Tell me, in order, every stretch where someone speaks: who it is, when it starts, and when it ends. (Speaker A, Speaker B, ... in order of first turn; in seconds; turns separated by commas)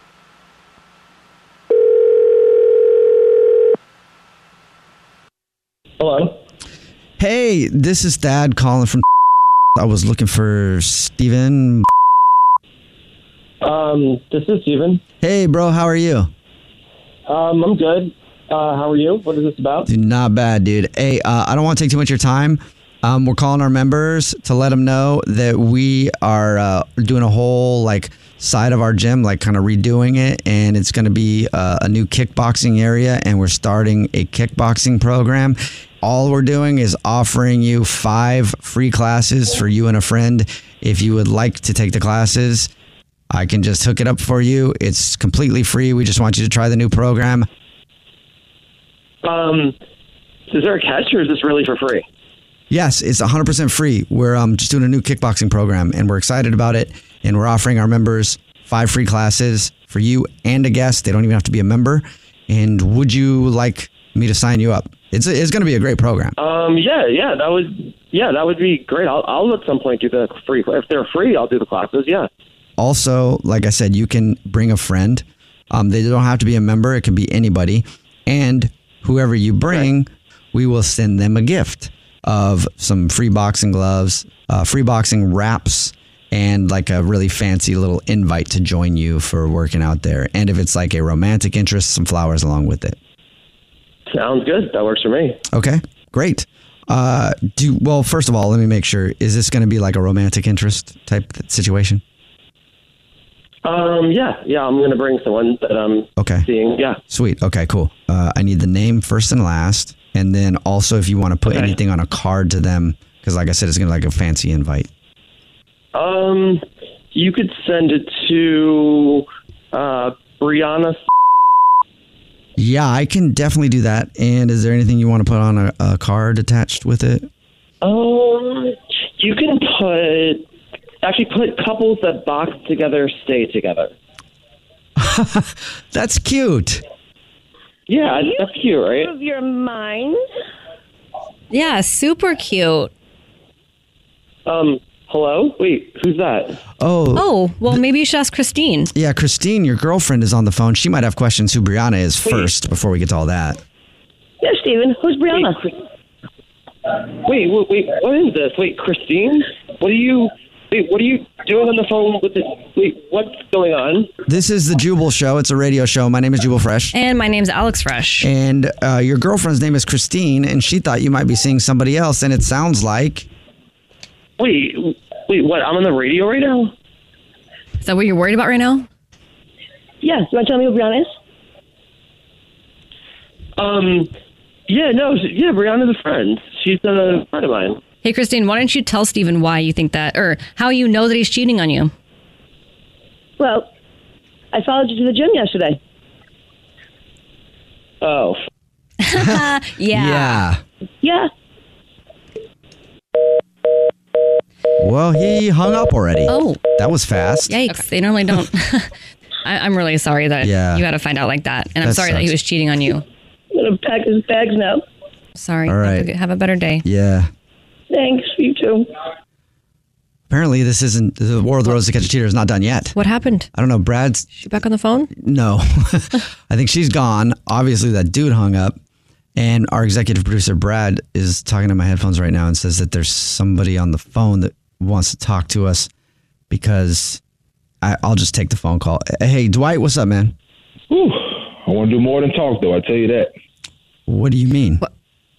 Speaker A: 6.0-6.4, Speaker B: 7.2-9.0, Speaker B: 9.8-11.9, Speaker A: 13.6-15.0, Speaker B: 15.2-16.3, Speaker A: 17.3-19.9, Speaker B: 19.9-42.7, Speaker B: 43.3-47.5, Speaker A: 49.2-49.8, Speaker A: 50.5-52.0, Speaker B: 52.7-66.3, Speaker A: 66.4-72.3, Speaker B: 72.8-93.0, Speaker A: 94.1-95.4, Speaker B: 95.5-102.0, Speaker A: 103.6-107.0, Speaker B: 106.2-106.5, Speaker B: 107.1-114.9, Speaker A: 111.5-111.8, Speaker A: 115.9-121.0, Speaker B: 122.6-127.3, Speaker A: 127.8-130.4, Speaker A: 131.0-133.9, Speaker B: 135.0-136.8, Speaker A: 137.9-139.1, Speaker C: 138.1-140.2, Speaker D: 141.5-142.9, Speaker A: 144.5-146.6, Speaker B: 146.8-147.8, Speaker D: 147.2-148.9, Speaker B: 148.9-153.6, Speaker C: 154.4-155.7, Speaker A: 157.2-164.1, Speaker B: 164.3-166.9, Speaker D: 166.9-168.3, Speaker B: 168.2-173.3, Speaker A: 174.4-176.7, Speaker D: 177.8-178.9, Speaker C: 180.0-181.1, Speaker A: 183.6-184.1, Speaker A: 184.7-187.8, Speaker D: 188.0-191.9, Speaker C: 193.4-193.7, Speaker C: 194.5-195.8, Speaker A: 198.0-198.3, Speaker D: 199.0-200.4, Speaker B: 199.1-200.6, Speaker C: 201.0-201.3, Speaker B: 204.8-207.8, Speaker D: 206.3-206.6, Speaker D: 207.5-208.9, Speaker D: 209.4-213.0, Speaker B: 210.4-210.8, Speaker B: 211.8-212.3, Speaker C: 213.5-214.8, Speaker D: 215.4-216.8, Speaker B: 215.7-216.1, Speaker B: 216.8-217.3, Speaker C: 217.9-218.9, Speaker B: 220.3-223.0, Speaker D: 223.0-223.5, Speaker B: 223.5-224.3, Speaker D: 224.4-225.1, Speaker B: 225.1-228.8, Speaker B: 229.4-235.9, Speaker B: 236.5-237.2, Speaker B: 237.8-240.3, Speaker E: 240.9-243.3, Speaker B: 244.1-244.8